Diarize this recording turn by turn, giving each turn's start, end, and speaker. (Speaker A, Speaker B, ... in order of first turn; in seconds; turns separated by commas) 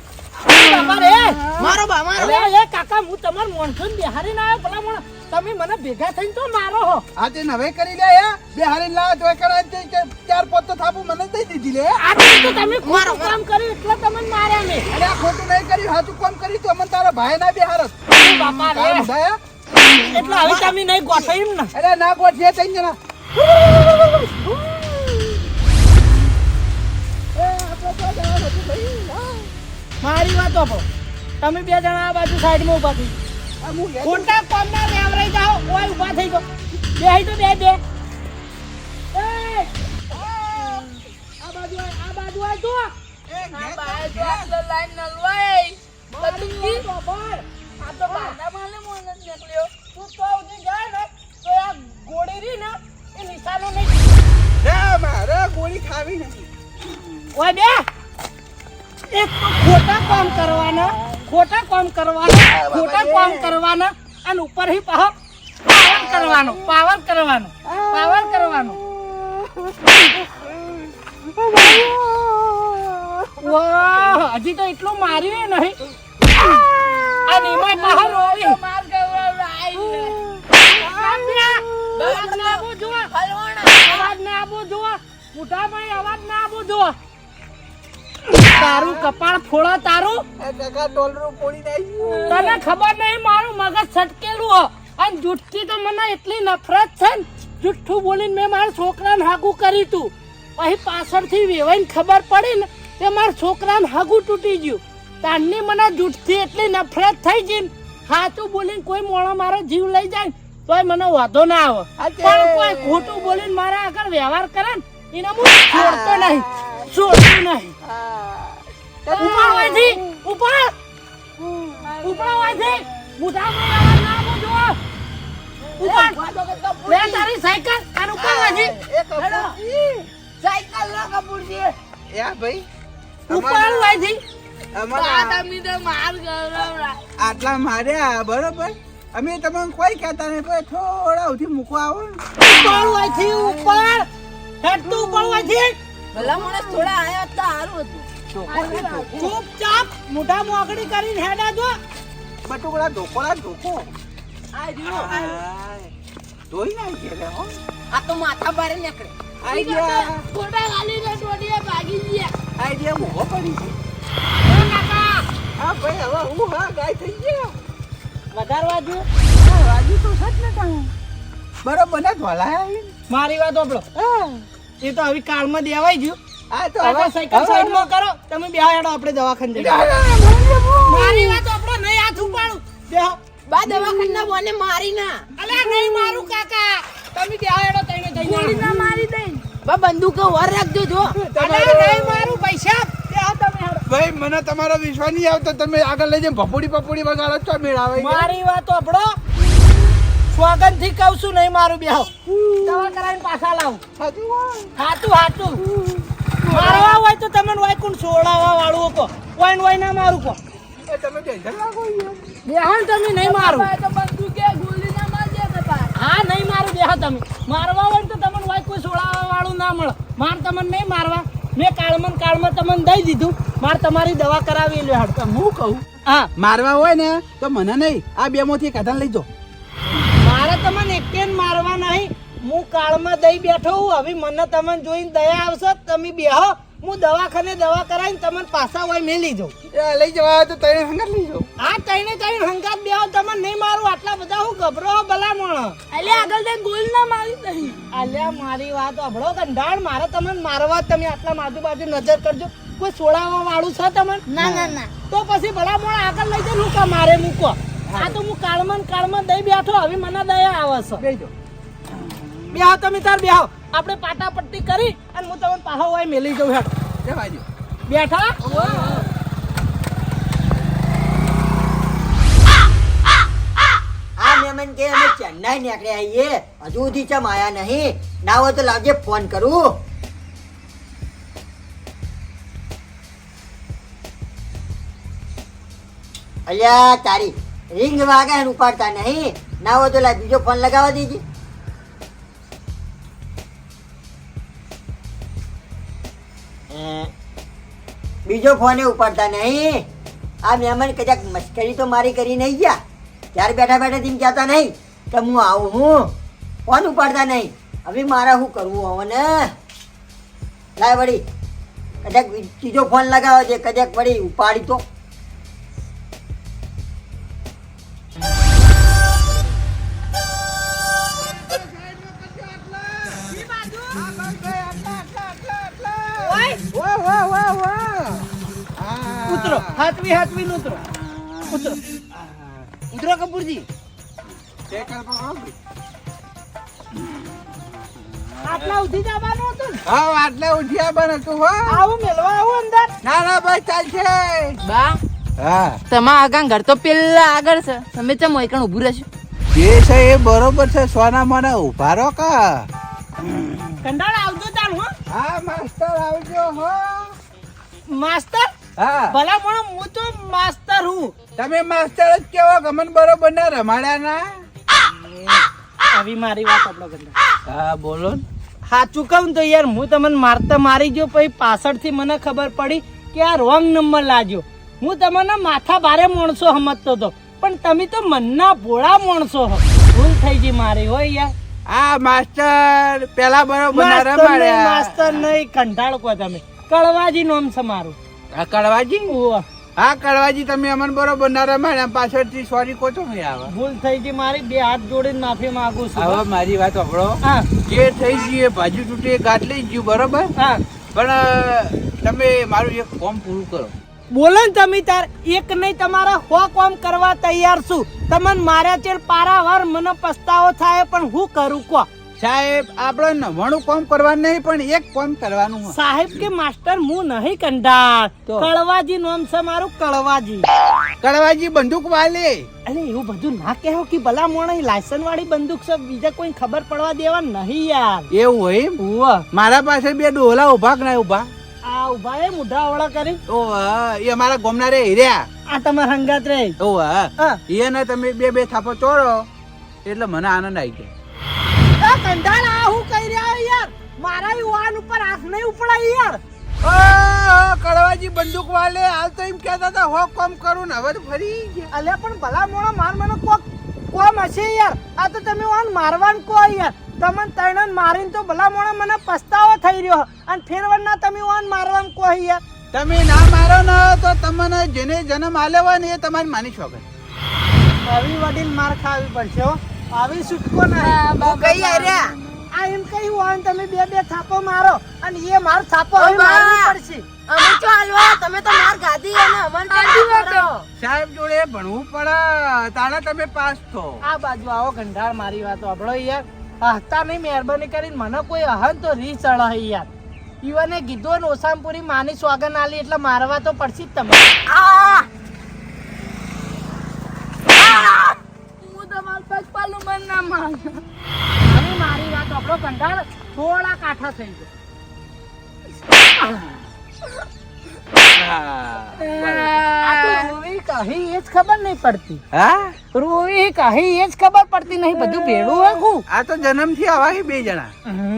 Speaker A: 0.4-1.4, Speaker B: 0.5-2.4, Speaker C: 1.6-2.4, Speaker A: 2.2-7.0, Speaker B: 7.2-12.0, Speaker A: 12.0-14.8, Speaker C: 12.8-13.4, Speaker B: 14.9-20.7, Speaker A: 18.1-19.1, Speaker A: 19.8-21.7, Speaker B: 21.7-25.7, Speaker B: 27.3-29.5, Speaker A: 30.0-30.8, Speaker A: 31.4-33.1, Speaker B: 33.6-34.4, Speaker A: 34.0-37.8, Speaker A: 39.1-39.7, Speaker B: 40.1-41.0, Speaker A: 41.4-42.9, Speaker B: 43.3-44.5, Speaker D: 43.5-46.9, Speaker A: 46.1-48.4, Speaker D: 48.0-49.7, Speaker A: 49.9-54.1, Speaker B: 54.6-57.2, Speaker A: 57.4-57.9, Speaker A: 59.1-65.1, Speaker B: 60.0-60.8, Speaker B: 62.4-63.6, Speaker A: 65.7-68.8, Speaker B: 65.8-66.6, Speaker B: 67.6-73.6, Speaker A: 73.4-75.8, Speaker B: 76.3-77.6, Speaker A: 77.3-78.6, Speaker D: 77.7-80.2, Speaker C: 79.3-80.1, Speaker B: 79.8-82.0, Speaker A: 80.5-83.1, Speaker C: 81.9-84.1, Speaker A: 83.8-86.9, Speaker A: 88.4-90.2, Speaker B: 88.5-89.1, Speaker B: 90.4-92.5, Speaker D: 92.2-92.6, Speaker A: 92.3-117.7, Speaker B: 112.0-113.5, Speaker B: 115.7-117.0, Speaker B: 117.8-120.0, Speaker A: 119.1-120.7, Speaker B: 121.4-121.9, Speaker A: 122.0-124.8, Speaker D: 122.4-122.7, Speaker A: 125.8-126.2, Speaker C: 125.8-127.2, Speaker A: 126.9-128.7, Speaker B: 128.2-130.1, Speaker C: 129.2-129.6, Speaker C: 130.4-131.7, Speaker B: 132.1-132.7, Speaker B: 133.3-134.1, Speaker A: 133.3-134.2, Speaker B: 134.8-135.4, Speaker D: 134.9-137.0, Speaker B: 137.2-143.7, Speaker A: 142.4-144.1, Speaker A: 144.6-145.7, Speaker C: 146.1-148.1, Speaker D: 146.2-146.7, Speaker B: 148.3-149.4, Speaker A: 148.5-151.8, Speaker B: 152.4-153.9, Speaker C: 154.5-155.4, Speaker B: 154.8-155.9, Speaker B: 156.5-157.5, Speaker C: 157.9-159.1, Speaker B: 159.4-160.2, Speaker D: 159.5-162.3, Speaker B: 162.6-163.8, Speaker A: 164.4-165.2, Speaker B: 165.6-167.6, Speaker A: 168.3-169.0, Speaker B: 169.4-170.9, Speaker B: 171.6-172.9, Speaker A: 173.1-173.9, Speaker B: 173.9-174.4, Speaker A: 174.8-176.2, Speaker B: 176.5-177.9, Speaker A: 176.8-179.8, Speaker B: 179.5-181.4, Speaker A: 180.8-183.2, Speaker C: 183.5-185.2, Speaker A: 185.4-188.7, Speaker D: 185.6-186.2, Speaker D: 188.2-189.4, Speaker B: 188.6-189.0, Speaker C: 189.7-191.2, Speaker B: 191.1-192.4, Speaker A: 191.4-193.8, Speaker B: 193.9-198.3, Speaker A: 197.9-199.2, Speaker A: 200.3-203.8, Speaker B: 202.3-202.9, Speaker B: 204.0-204.7, Speaker A: 204.8-205.6, Speaker B: 205.7-206.9, Speaker A: 206.5-210.4, Speaker D: 206.5-207.0, Speaker B: 210.8-212.3, Speaker A: 212.4-213.7, Speaker D: 213.1-215.9, Speaker A: 215.9-225.2, Speaker B: 225.2-225.8, Speaker B: 226.4-229.3, Speaker A: 230.2-239.5, Speaker B: 239.7-241.5, Speaker A: 241.6-246.3, Speaker D: 245.9-247.8, Speaker A: 247.9-254.3, Speaker D: 254.3-254.9, Speaker B: 254.4-254.8, Speaker A: 255.1-261.0, Speaker B: 257.9-258.2, Speaker B: 261.0-261.3, Speaker B: 261.9-262.6, Speaker A: 262.5-266.7, Speaker B: 267.0-267.4, Speaker A: 267.9-268.9, Speaker B: 268.4-269.1, Speaker E: 274.2-279.8, Speaker E: 286.5-291.2, Speaker E: 296.7-297.1, Speaker E: 298.2-299.9, Speaker E: 300.4-302.8, Speaker E: 303.3-306.1, Speaker E: 306.7-309.5, Speaker E: 310.8-311.2, Speaker E: 312.0-314.8, Speaker B: 321.0-323.4, Speaker A: 323.3-324.0, Speaker B: 323.9-329.8, Speaker A: 326.2-326.6, Speaker A: 329.3-330.8, Speaker B: 330.8-332.7, Speaker A: 331.5-331.8, Speaker C: 332.9-333.6, Speaker B: 334.7-335.6, Speaker B: 336.9-338.8, Speaker A: 338.4-339.8, Speaker B: 339.9-341.8, Speaker A: 341.7-342.9, Speaker B: 343.0-344.6, Speaker C: 344.6-345.0, Speaker B: 345.4-345.8, Speaker C: 345.9-349.1, Speaker B: 349.5-352.7, Speaker B: 353.2-353.8, Speaker A: 353.8-354.9, Speaker B: 355.1-357.1, Speaker A: 357.9-358.5, Speaker B: 358.8-359.1, Speaker A: 359.1-361.1, Speaker B: 361.4-364.4, Speaker A: 364.9-365.4, Speaker A: 365.9-367.1, Speaker B: 367.5-368.2, Speaker A: 368.7-381.3, Speaker B: 381.7-385.2, Speaker A: 383.7-387.9, Speaker B: 388.3-389.1, Speaker A: 389.1-389.4, Speaker B: 389.8-393.5, Speaker A: 393.5-396.2, Speaker B: 395.9-400.3, Speaker A: 397.2-397.5, Speaker B: 400.9-403.7, Speaker A: 404.1-411.9, Speaker B: 412.2-415.8, Speaker A: 415.7-420.5, Speaker B: 421.0-422.5, Speaker A: 422.6-428.1, Speaker B: 428.1-428.8, Speaker A: 428.8-429.2, Speaker B: 429.3-431.3, Speaker A: 431.6-433.2, Speaker B: 433.3-435.2, Speaker A: 435.5-436.6, Speaker B: 436.6-439.2, Speaker B: 439.8-440.9, Speaker A: 441.8-446.2, Speaker B: 446.6-451.7, Speaker A: 451.7-462.4, Speaker B: 462.7-466.8, Speaker A: 467.9-471.0, Speaker D: 470.8-472.4, Speaker C: 471.2-472.1, Speaker A: 472.5-477.0, Speaker C: 476.0-476.8, Speaker C: 477.3-480.2, Speaker A: 479.7-480.6, Speaker D: 479.8-480.5, Speaker B: 480.8-484.0, Speaker A: 484.0-489.9, Speaker A: 490.4-494.2, Speaker D: 494.5-495.1, Speaker D: 497.5-500.8, Speaker A: 501.4-504.5, Speaker B: 508.1-509.6, Speaker A: 509.8-512.2, Speaker B: 512.3-512.8, Speaker A: 512.9-516.0, Speaker B: 515.0-517.8